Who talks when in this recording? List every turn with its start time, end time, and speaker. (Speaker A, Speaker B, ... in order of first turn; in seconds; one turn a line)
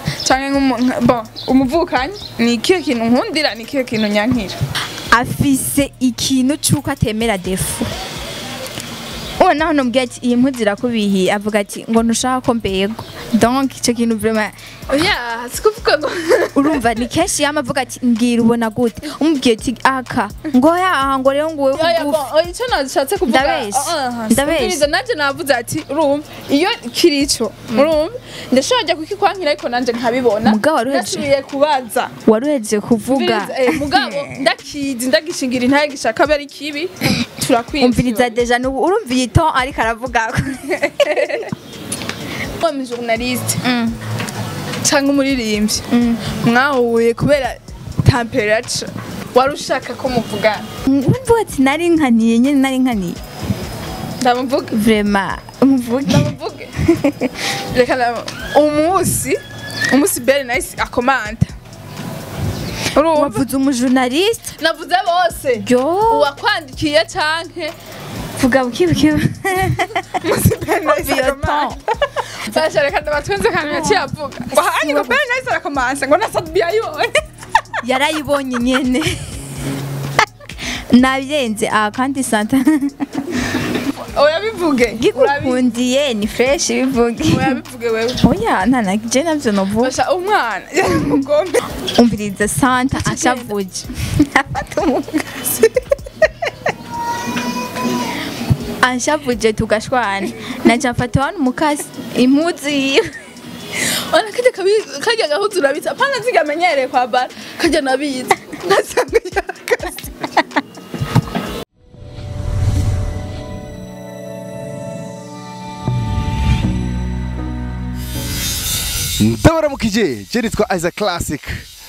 Speaker A: 0.2-4.5
Speaker B: 5.1-7.9
Speaker B: 9.4-14.5
Speaker A: 14.9-17.0
Speaker B: 16.5-22.3
Speaker A: 21.7-32.1
Speaker B: 23.3-24.9
Speaker B: 30.4-31.3
Speaker B: 32.2-34.4
Speaker A: 33.1-38.3
Speaker B: 37.8-41.5
Speaker A: 40.8-41.5
Speaker A: 42.6-43.6
Speaker B: 43.6-44.0
Speaker A: 44.8-50.6
Speaker B: 45.9-46.2
Speaker B: 50.8-53.2
Speaker A: 54.2-54.7
Speaker B: 54.7-57.3
Speaker A: 56.0-56.7
Speaker A: 57.7-61.5
Speaker A: 62.9-63.4
Speaker B: 63.1-64.5
Speaker A: 64.6-67.7
Speaker B: 65.6-66.3
Speaker B: 68.4-70.2
Speaker A: 70.1-71.8
Speaker B: 70.8-71.8
Speaker A: 72.3-77.1
Speaker B: 73.6-75.2
Speaker B: 77.8-79.3
Speaker B: 80.7-83.2
Speaker A: 84.0-85.6
Speaker B: 85.0-87.6
Speaker A: 87.3-88.2
Speaker B: 88.2-89.9
Speaker A: 89.8-91.6
Speaker B: 91.9-95.5
Speaker A: 93.0-93.5
Speaker B: 98.8-103.1
Speaker A: 104.1-110.1
Speaker C: 119.2-121.7